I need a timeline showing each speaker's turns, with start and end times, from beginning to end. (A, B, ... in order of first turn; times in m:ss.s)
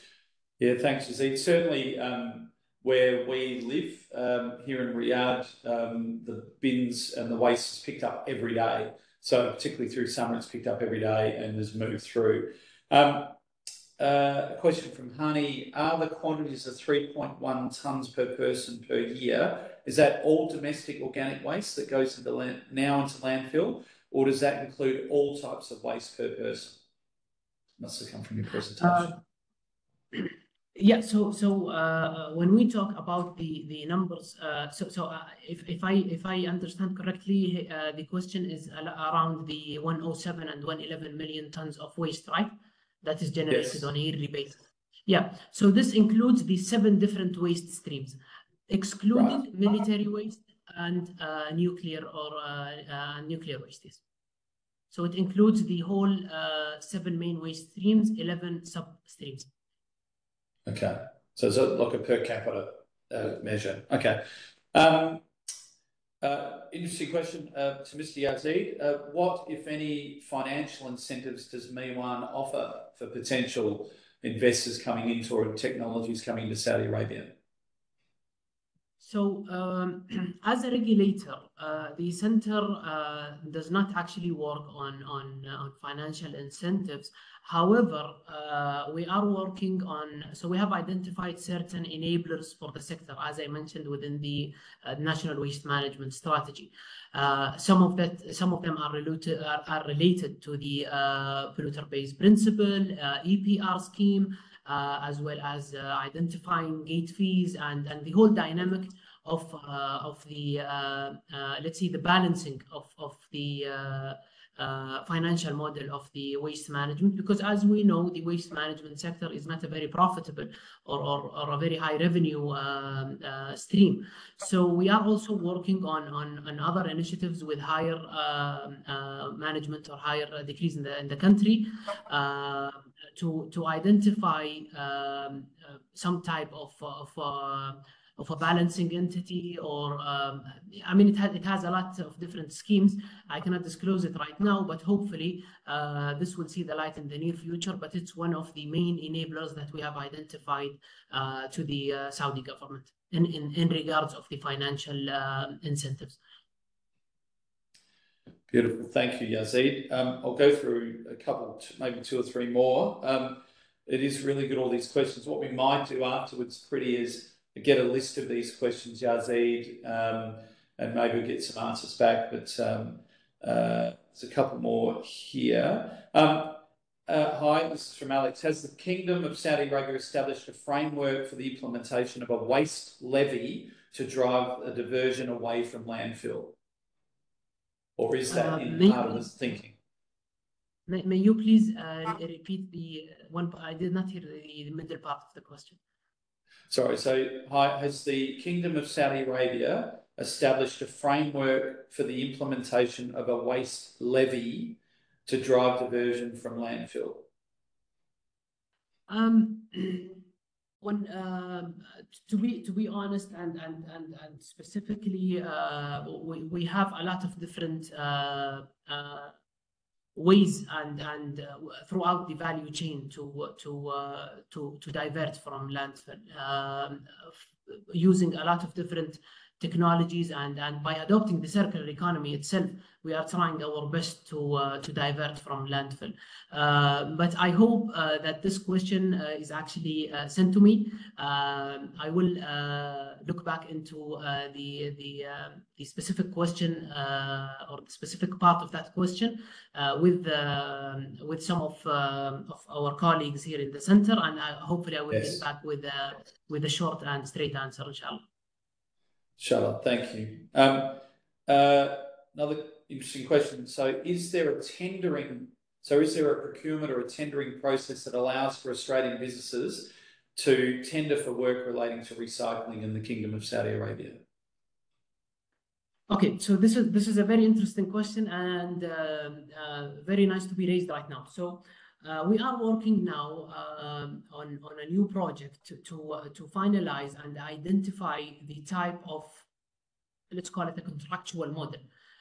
0:00.6-0:13.4 A
0:14.0-0:26.8 A
0:27.8-0:29.2 A
0:28.8-0:29.1 B
0:30.1-0:54.0 B
0:43.5-0:43.9 A
0:49.1-0:49.4 A
0:54.9-0:59.5 B
1:00.6-1:05.2 A
1:06.2-1:17.3 A
1:19.0-2:36.2 B
2:38.5-3:06.6 A
3:08.0-3:09.8 A
3:08.3-3:09.3 B
3:10.9-3:15.8 B
3:16.7-3:27.2 A
3:29.1-3:30.2 B
3:30.8-3:39.3 B
3:40.2-4:18.2 B
4:15.1-4:15.4 A
4:19.4-4:34.2 A
4:36.1-4:49.4 B
4:50.3-4:51.8 B